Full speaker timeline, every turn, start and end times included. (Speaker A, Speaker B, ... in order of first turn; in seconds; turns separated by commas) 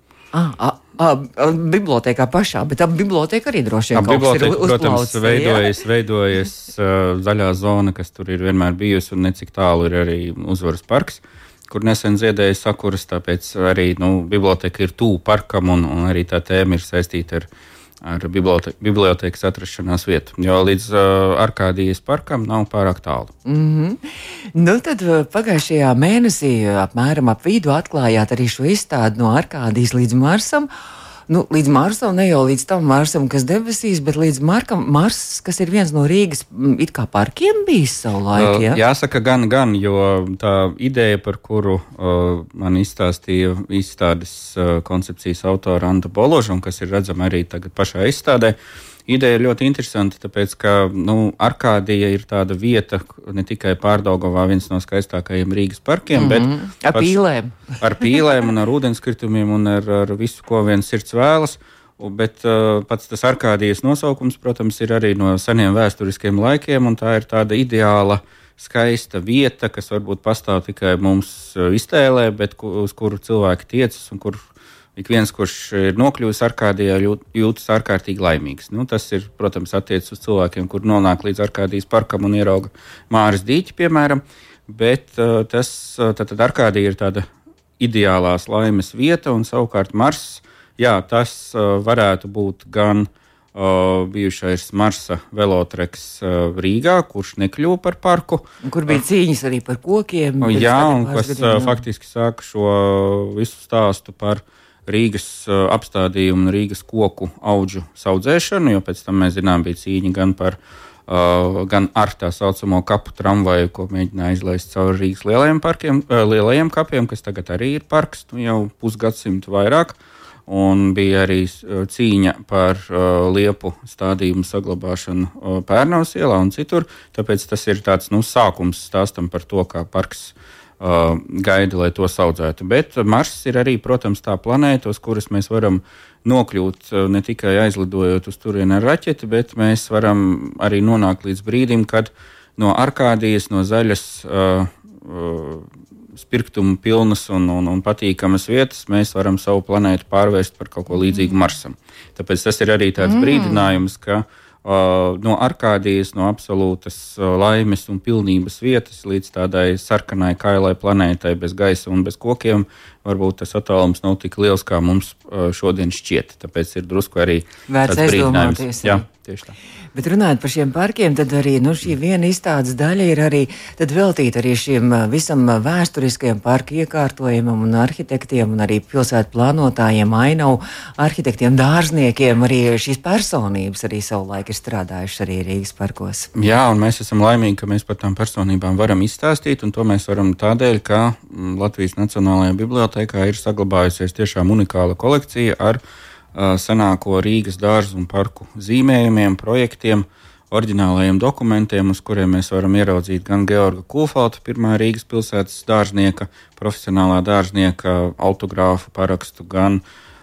Speaker A: 0.3-5.7, Speaker B: 3.9-17.5, Speaker B: 18.0-23.3, Speaker A: 23.4-30.7, Speaker A: 31.3-38.8, Speaker B: 38.3-57.1, Speaker A: 56.1-57.8, Speaker B: 57.8-87.3, Speaker B: 87.8-99.0, Speaker A: 98.6-101.8, Speaker B: 100.4-169.5, Speaker A: 167.7-169.1, Speaker A: 169.9-186.3, Speaker B: 186.3-195.8, Speaker B: 196.3-209.8